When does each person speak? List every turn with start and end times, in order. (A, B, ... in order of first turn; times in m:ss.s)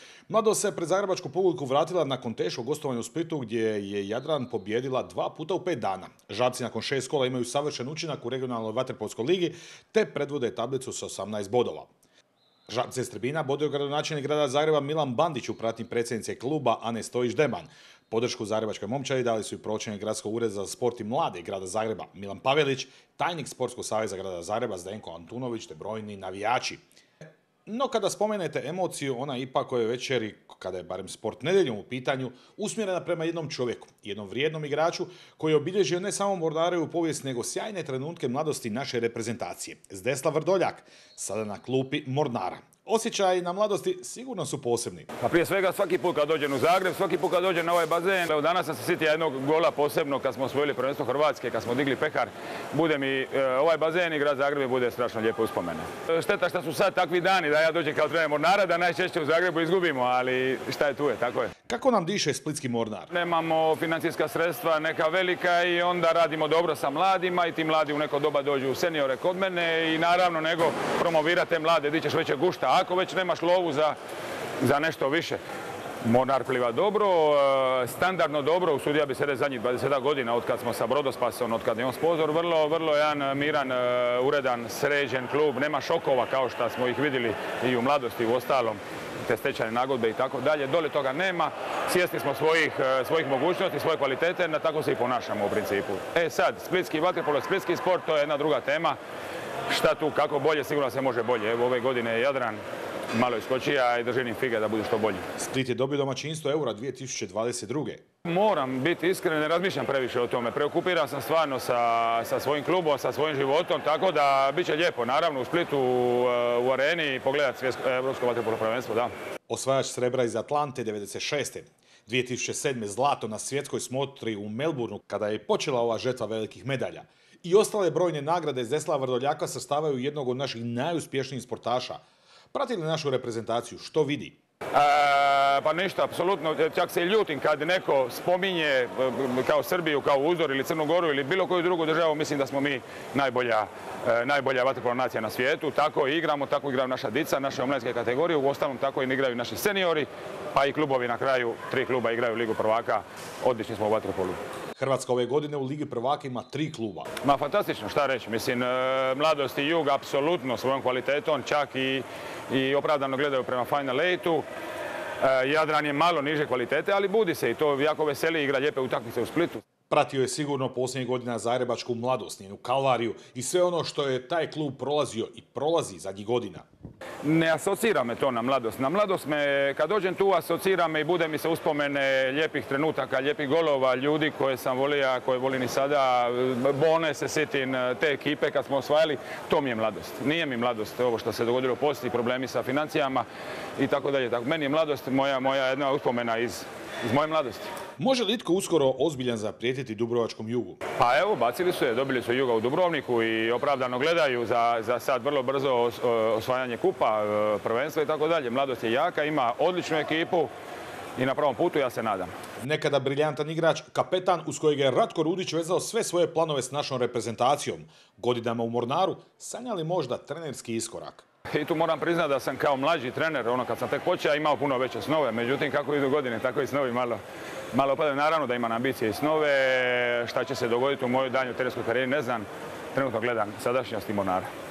0:00.3-0:11.9 A
0:12.7-0:26.8 A
0:27.7-0:45.1 A
0:45.2-1:01.5 B
1:01.7-1:03.1 A
1:03.1-1:14.0 B
1:14.6-1:15.4 B
1:16.0-1:39.0 B
1:39.7-1:45.2 B
1:45.4-1:48.0 A
1:48.2-1:59.1 B
1:59.5-2:12.0 A
2:12.5-2:14.4 A
2:14.7-2:34.4 B
2:34.8-2:37.1 A
2:37.2-2:44.4 B
2:45.2-2:49.6 B
2:49.9-2:56.6 A
2:57.2-3:13.3 B
3:13.8-3:17.7 B
3:18.0-3:20.8 A
3:21.0-3:30.5 B
3:31.2-3:32.3 B
3:32.6-3:41.2 A
3:41.5-3:47.2 B
3:47.7-3:54.5 B